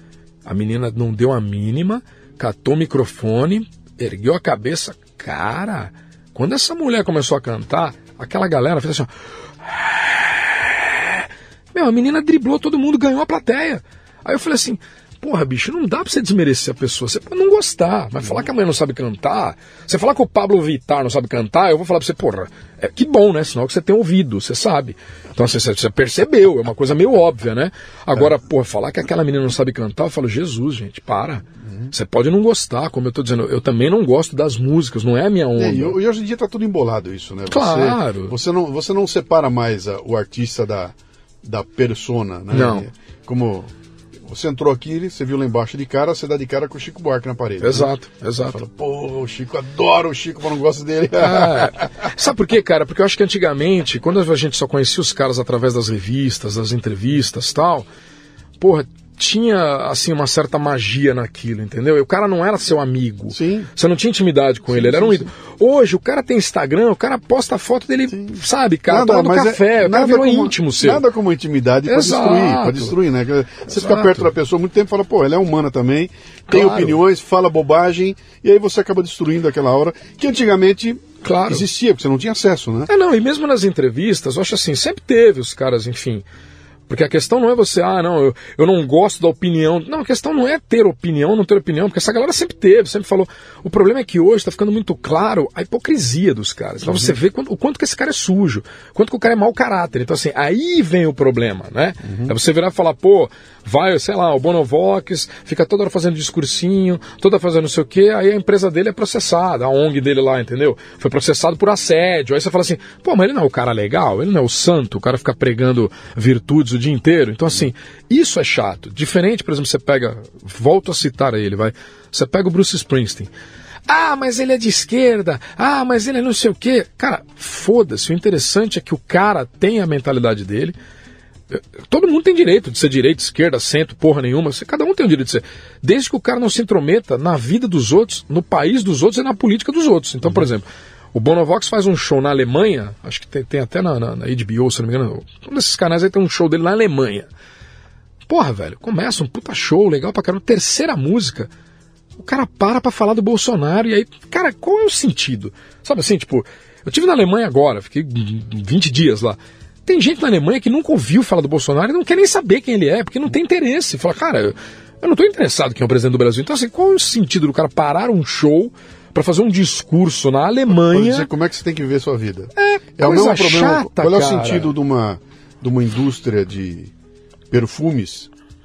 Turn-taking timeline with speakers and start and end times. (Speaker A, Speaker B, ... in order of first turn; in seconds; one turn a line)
Speaker A: 0.4-9.1
Speaker A: 9.6-36.0
Speaker B: 35.5-43.7
Speaker A: 37.5-38.3
Speaker A: 42.5-42.9
Speaker B: 44.2-47.9
Speaker A: 47.6-48.6
Speaker B: 48.5-51.8
Speaker A: 51.2-57.9
Speaker A: 58.6-71.0
Speaker B: 63.3-63.7
Speaker B: 64.7-65.3
Speaker B: 68.1-82.9
Speaker A: 71.8-72.9
Speaker A: 73.7-74.2
Speaker A: 76.5-77.0
Speaker A: 81.2-81.6
Speaker A: 82.9-86.2
Speaker A: 86.9-123.3
Speaker B: 96.9-97.1
Speaker A: 123.9-130.7
Speaker A: 131.5-147.3
Speaker A: 148.3-151.5
Speaker A: 152.2-171.3
Speaker B: 170.7-176.9
Speaker A: 172.6-174.7
Speaker B: 177.5-178.3